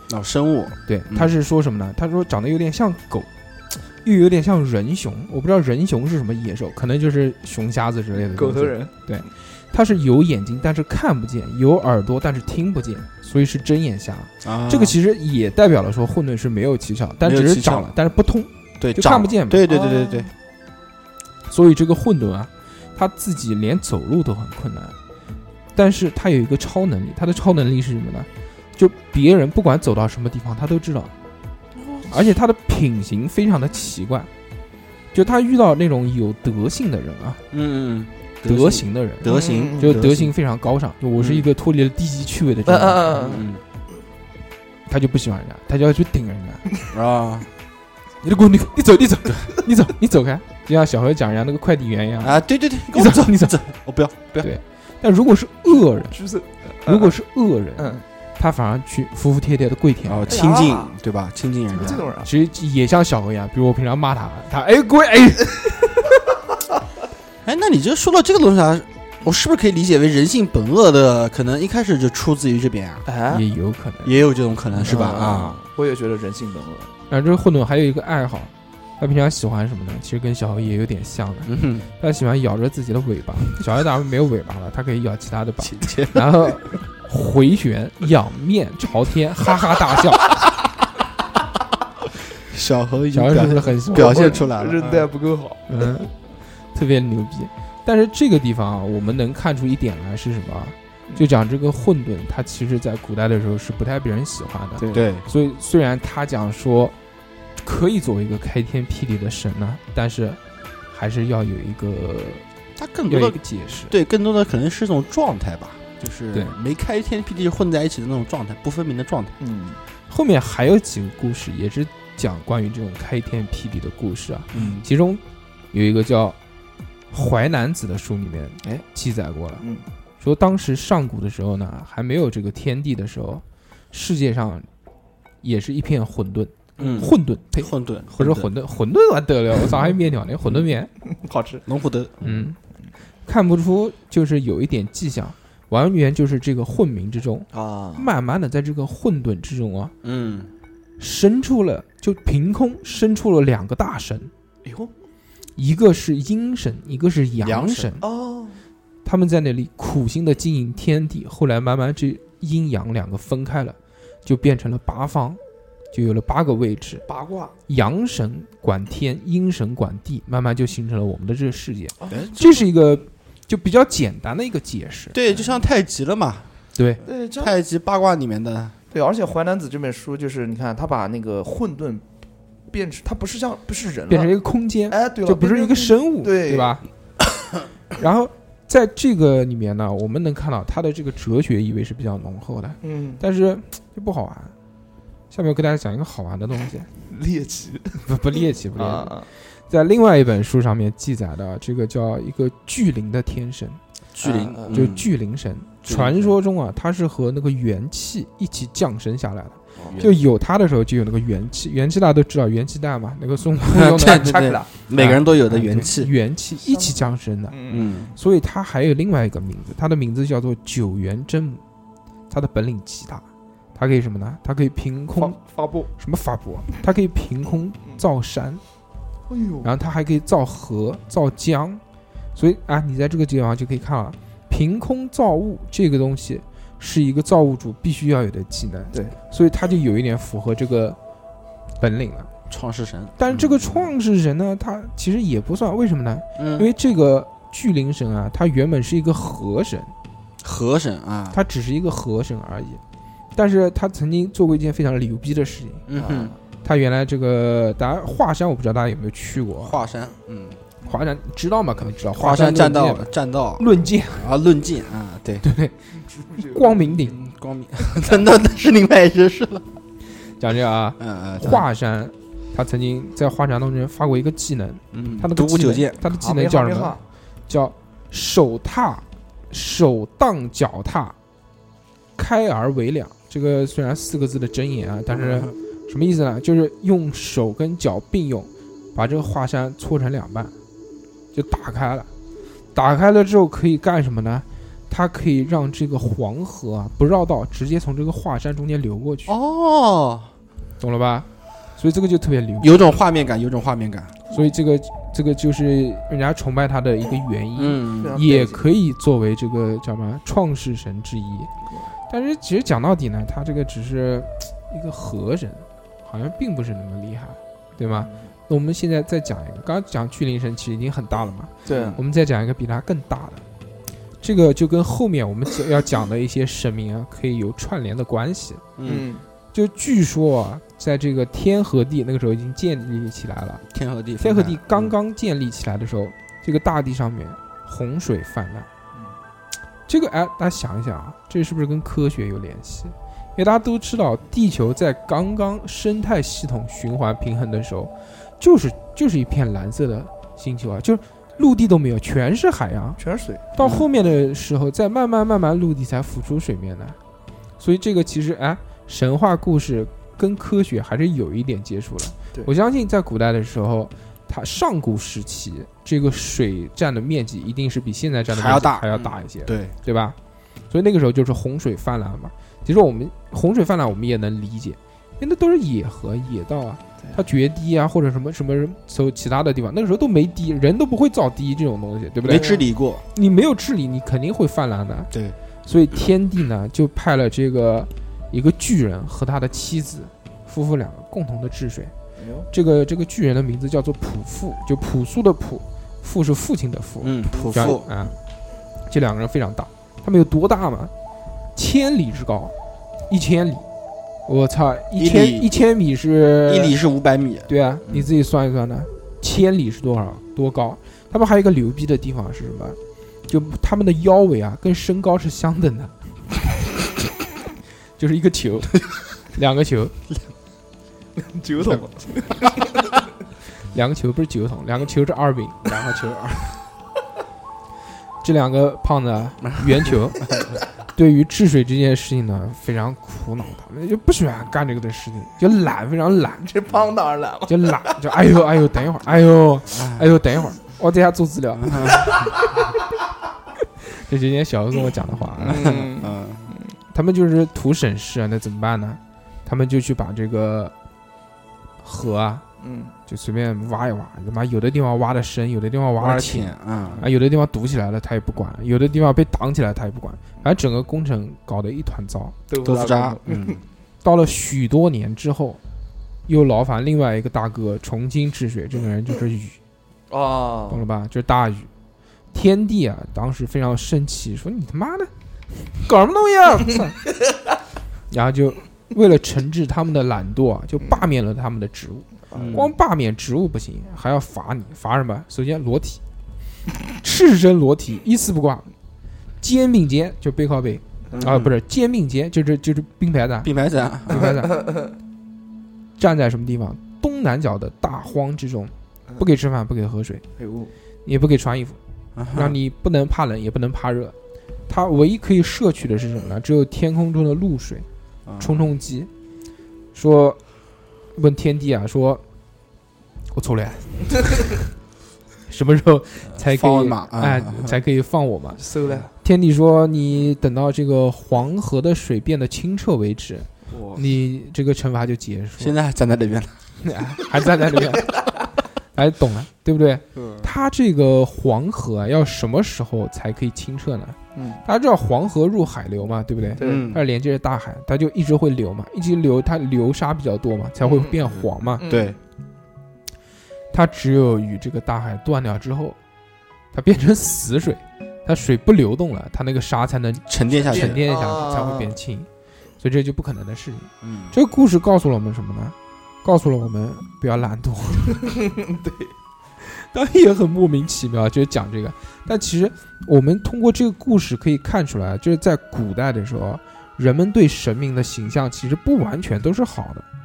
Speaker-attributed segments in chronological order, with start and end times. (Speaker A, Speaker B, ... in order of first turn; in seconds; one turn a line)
Speaker A: 0.1-1.3
Speaker B: 0.9-19.6
Speaker C: 8.2-8.9
Speaker A: 14.4-15.0
Speaker A: 17.2-18.0
Speaker A: 18.8-20.3
Speaker C: 19.7-20.3
Speaker B: 21.5-25.0
Speaker B: 25.8-31.1
Speaker C: 31.8-32.1
Speaker B: 32.1-34.3
Speaker B: 35.1-37.4
Speaker A: 37.5-40.3
Speaker B: 38.5-43.3
Speaker C: 39.2-39.8
Speaker A: 41.2-41.5
Speaker C: 42.7-43.5
Speaker A: 43.2-43.6
Speaker B: 44.9-46.6
Speaker A: 46.9-47.5
Speaker B: 48.2-53.5
Speaker A: 52.2-54.5
Speaker B: 54.4-56.2
Speaker C: 56.1-57.1
Speaker B: 56.9-60.4
Speaker C: 57.8-58.0
Speaker A: 60.1-62.1
Speaker C: 60.3-61.0
Speaker C: 61.7-62.3
Speaker B: 62.2-66.1
Speaker A: 67.4-73.1
Speaker C: 73.1-73.5
Speaker B: 73.3-74.2
Speaker A: 74.0-75.6
Speaker B: 74.8-75.2
Speaker C: 74.8-76.9
Speaker B: 77.1-90.3
Speaker A: 81.5-81.9
Speaker A: 85.6-86.3
Speaker A: 92.4-95.1
Speaker B: 93.1-94.5
Speaker C: 93.9-95.7
Speaker B: 95.7-96.1
Speaker B: 96.7-107.0
Speaker C: 104.8-105.0
Speaker A: 104.9-105.3
Speaker B: 107.6-112.5
Speaker A: 112.8-119.3
Speaker B: 113.1-114.0
Speaker C: 119.4-119.8
Speaker B: 120.1-126.4
Speaker A: 124.5-124.8
Speaker B: 127.1-129.6
Speaker B: 130.2-134.7
Speaker B: 135.4-140.9
Speaker A: 136.8-138.5
Speaker C: 141.0-141.7
Speaker A: 141.7-142.5
Speaker B: 142.2-142.6
Speaker B: 143.3-149.9
Speaker C: 147.5-148.1
Speaker A: 150.0-150.5
Speaker B: 151.0-154.3
Speaker C: 154.6-154.9
Speaker B: 155.6-158.0
Speaker A: 157.4-158.0
Speaker C: 158.0-158.6
Speaker B: 159.1-165.4
Speaker B: 165.9-167.0
Speaker C: 167.1-167.6
Speaker B: 167.7-175.2
Speaker C: 172.0-172.3
Speaker A: 172.1-172.4
Speaker A: 175.1-176.5
Speaker B: 176.8-177.0
Speaker C: 177.0-177.6
Speaker A: 177.4-178.8
Speaker C: 178.9-182.1
Speaker C: 182.7-184.3
Speaker B: 184.1-186.8
Speaker C: 184.9-186.7
Speaker B: 188.0-194.5
Speaker C: 192.8-193.2
Speaker B: 195.3-196.9
Speaker C: 197.1-198.0
Speaker B: 198.0-203.8
Speaker C: 198.8-199.3
Speaker A: 204.2-205.1
Speaker C: 204.2-204.9
Speaker B: 204.7-221.6
Speaker A: 205.8-206.3
Speaker C: 209.8-210.1
Speaker A: 209.8-210.1
Speaker A: 213.6-216.1
Speaker C: 214.3-214.6
Speaker C: 216.6-218.0
Speaker A: 217.7-218.1
Speaker B: 222.3-223.2
Speaker B: 223.8-225.4
Speaker C: 225.2-225.9
Speaker B: 225.9-228.6
Speaker C: 229.3-229.7
Speaker B: 229.6-231.8
Speaker B: 232.3-241.0
Speaker B: 241.8-242.3
Speaker A: 242.5-243.9
Speaker B: 243.2-249.9
Speaker A: 246.4-246.7
Speaker A: 250.4-251.4
Speaker B: 251.3-252.8
Speaker B: 253.3-255.9
Speaker A: 255.9-256.3
Speaker C: 256.0-256.4
Speaker B: 256.6-259.8
Speaker A: 259.6-260.6
Speaker B: 260.9-264.4
Speaker A: 262.1-265.4
Speaker B: 265.4-267.2
Speaker C: 266.1-266.9
Speaker A: 267.0-269.7
Speaker B: 270.4-277.0
Speaker A: 271.0-271.6
Speaker A: 274.9-276.0
Speaker C: 276.1-277.0
Speaker B: 277.5-281.1
Speaker B: 282.2-290.5
Speaker A: 285.1-285.6
Speaker B: 291.3-292.1
Speaker B: 292.7-299.4
Speaker A: 299.3-300.3
Speaker B: 300.8-302.9
Speaker A: 302.6-304.2
Speaker B: 304.3-311.5
Speaker A: 307.6-308.2
Speaker C: 308.0-308.6
Speaker B: 312.1-323.4
Speaker C: 317.9-318.3
Speaker C: 321.6-322.0
Speaker A: 321.7-322.0
Speaker B: 324.2-328.6
Speaker A: 328.8-329.1
Speaker C: 328.9-329.2
Speaker B: 329.5-333.6
Speaker A: 333.7-334.9
Speaker B: 334.2-338.7
Speaker B: 339.9-353.0
Speaker C: 353.0-353.4
Speaker B: 353.5-357.0
Speaker A: 353.6-353.9
Speaker B: 357.6-370.2
Speaker A: 368.3-369.7
Speaker B: 370.7-382.5
Speaker A: 382.3-383.1
Speaker C: 382.3-382.6
Speaker B: 383.1-385.1
Speaker A: 385.1-385.4
Speaker B: 385.6-391.9
Speaker C: 392.2-392.5
Speaker B: 392.5-398.2
Speaker A: 397.0-397.9
Speaker C: 397.4-397.8
Speaker B: 398.9-400.9
Speaker B: 401.6-402.5
Speaker B: 403.1-403.7
Speaker B: 404.3-406.8
Speaker A: 405.0-405.5
Speaker A: 406.5-408.1
Speaker B: 407.5-415.9
Speaker B: 418.0-419.9
Speaker C: 421.2-422.9
Speaker B: 423.7-425.6
Speaker A: 425.6-426.7
Speaker B: 428.2-430.4
Speaker A: 429.5-430.6
Speaker B: 430.9-436.5
Speaker C: 436.4-438.0
Speaker B: 437.5-442.2
Speaker A: 439.7-440.1
Speaker A: 441.6-442.3
Speaker C: 441.9-442.7
Speaker B: 443.8-445.7
Speaker A: 445.4-446.5
Speaker C: 445.4-446.7
Speaker B: 446.9-450.7
Speaker B: 451.8-452.4
Speaker C: 452.6-452.9
Speaker B: 453.1-462.4
Speaker A: 456.0-457.0
Speaker C: 462.5-463.6
Speaker A: 462.6-463.6
Speaker B: 464.0-465.6
Speaker B: 466.3-469.6
Speaker C: 470.1-470.9
Speaker B: 470.7-471.7
Speaker B: 472.3-477.0
Speaker B: 478.1-486.0
Speaker C: 482.3-482.6
Speaker A: 482.3-482.7
Speaker B: 486.9-488.7
Speaker B: 489.4-493.5
Speaker A: 491.1-491.5
Speaker A: 493.4-494.3
Speaker B: 494.1-494.6
Speaker C: 494.5-494.7
Speaker B: 496.0-500.2
Speaker C: 500.4-500.7
Speaker B: 501.1-501.8
Speaker A: 502.1-502.6
Speaker B: 502.3-504.2
Speaker B: 504.7-507.9
Speaker A: 508.3-508.7
Speaker B: 508.4-509.1
Speaker B: 509.9-510.4
Speaker B: 511.1-512.2
Speaker B: 513.3-514.3
Speaker B: 515.5-518.6
Speaker A: 516.4-517.8
Speaker C: 518.6-519.1
Speaker B: 519.2-525.8
Speaker C: 523.7-524.0
Speaker A: 525.6-526.7
Speaker B: 526.8-528.1
Speaker B: 529.0-541.8
Speaker A: 530.1-530.5
Speaker C: 534.4-534.6
Speaker C: 536.6-536.9
Speaker A: 536.6-537.0
Speaker C: 540.8-541.2
Speaker C: 541.8-542.2
Speaker A: 541.8-542.2
Speaker B: 543.7-546.0
Speaker B: 546.7-552.3
Speaker A: 550.3-551.0
Speaker C: 550.7-552.0
Speaker B: 552.8-558.3
Speaker A: 554.0-554.4
Speaker C: 558.2-559.1
Speaker B: 559.6-570.0